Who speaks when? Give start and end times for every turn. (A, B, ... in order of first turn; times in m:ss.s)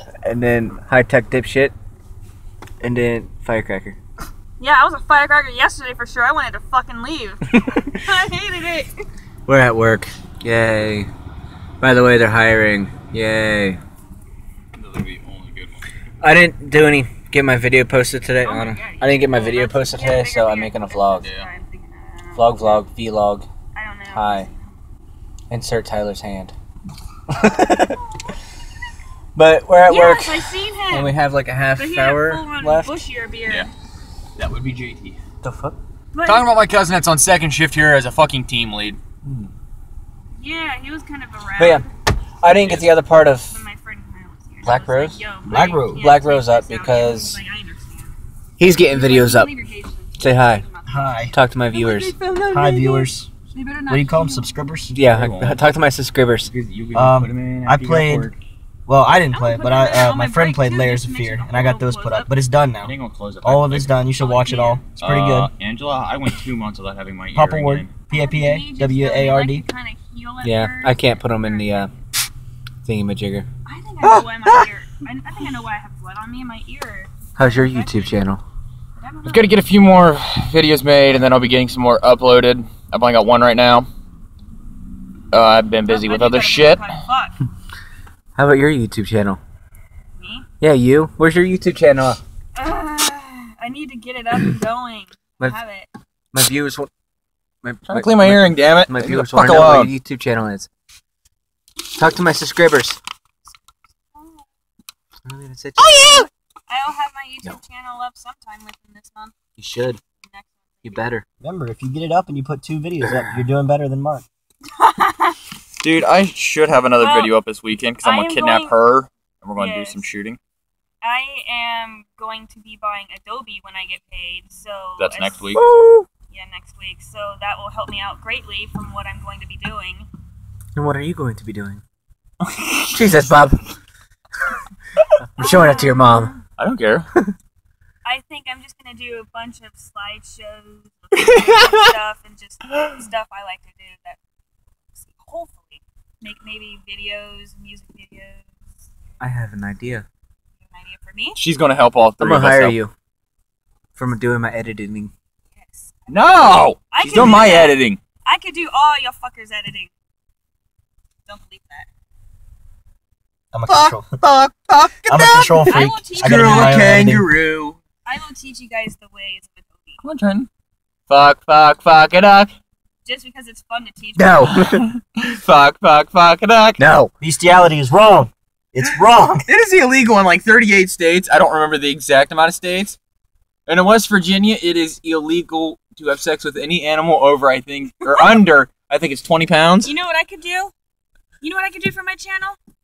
0:00.2-0:01.7 A
0:02.8-0:04.0 A
0:04.6-0:09.0 B
0:09.4-0:11.1 A
0:11.8-0:13.8 A
0:14.7-0:15.9 C
0:16.2-0:21.2 A
0:18.4-0:22.8 B
0:22.3-0:23.4 A
0:23.7-0:24.8 B
0:24.1-0:24.5 A
0:25.5-0:26.5 A
0:27.3-0:28.0 A
0:27.3-0:28.4 B
0:29.3-0:33.0 A
0:29.8-0:31.2 B
0:31.8-0:33.7 B
0:34.4-0:35.2 C
0:35.4-0:35.8 A
0:36.1-0:36.5 B
0:36.2-0:39.0 C
0:40.4-0:41.9 B
0:41.6-0:41.8 A
0:42.4-0:43.6 A
0:42.4-0:42.9 C
0:43.4-0:54.6 B
0:44.6-0:45.2 A
0:45.4-0:46.1 D
0:46.0-0:47.4 A
0:48.6-0:49.5 A
0:50.2-0:50.7 A
0:50.8-0:51.3 D
0:51.3-0:52.1 A
0:52.5-0:53.3 D
0:53.9-0:55.0 D
0:54.9-0:56.5 A
0:55.1-0:55.6 C
0:56.5-0:58.4 C
0:56.9-0:58.3 D
0:58.9-1:05.5 D
0:59.3-1:02.4 B
1:02.8-1:03.9 C
1:04.2-1:04.8 B
1:05.0-1:07.9 C
1:07.3-1:09.6 D
1:08.1-1:12.0 B
1:10.4-1:11.9 A
1:12.8-1:13.5 A
1:13.6-1:18.2 B
1:17.4-1:18.4 A
1:19.0-1:19.6 B
1:19.2-1:23.9 C
1:25.3-1:26.9 C
1:25.9-1:27.4 B
1:28.4-1:29.4 A
1:30.2-1:30.5 B
1:30.6-1:32.2 A
1:32.6-1:35.9 B
1:36.3-1:36.9 A
1:37.6-1:40.7 A
1:37.9-1:39.9 C
1:41.9-1:43.0 A
1:43.5-1:44.4 B
1:45.2-1:46.3 A
1:45.8-1:46.2 C
1:46.7-1:49.3 B
1:49.6-1:50.0 A
1:50.2-1:51.1 B
1:50.8-1:51.2 A
1:51.4-1:54.2 D
1:53.1-1:53.4 A
1:54.7-1:55.4 B
1:55.8-2:00.4 C
1:57.0-1:57.4 B
1:58.0-1:58.8 B
1:59.6-2:00.0 B
2:01.0-2:05.4 B
2:05.0-2:05.6 C
2:05.5-2:06.1 A
2:06.3-2:10.1 B
2:10.8-2:11.8 A
2:12.4-2:13.2 C
2:12.9-2:13.6 A
2:15.2-2:16.4 A
2:15.4-2:16.4 B
2:16.6-2:17.1 C
2:18.0-2:24.2 B
2:21.2-2:21.9 C
2:24.9-2:29.2 B
2:29.2-2:30.0 A
2:30.6-2:31.4 B
2:31.4-2:32.8 C
2:32.2-2:32.9 A
2:33.9-2:35.1 A
2:35.5-2:39.9 B
2:36.1-2:38.0 C
2:37.0-2:37.6 A
2:41.2-2:41.9 B
2:43.5-2:44.2 D
2:43.7-2:47.8 C
2:45.0-2:47.3 D
2:45.6-2:47.1 B
2:48.0-2:50.0 B
2:50.0-2:50.5 C
2:51.1-2:52.5 C
2:53.0-2:54.6 B
2:54.2-2:54.9 A
2:54.5-2:56.8 C
2:56.8-2:57.1 A
2:57.2-2:59.4 D
2:59.4-3:03.0 C
3:03.7-3:09.9 C
3:08.1-3:08.4 B
3:09.8-3:10.7 B
3:11.4-3:12.6 B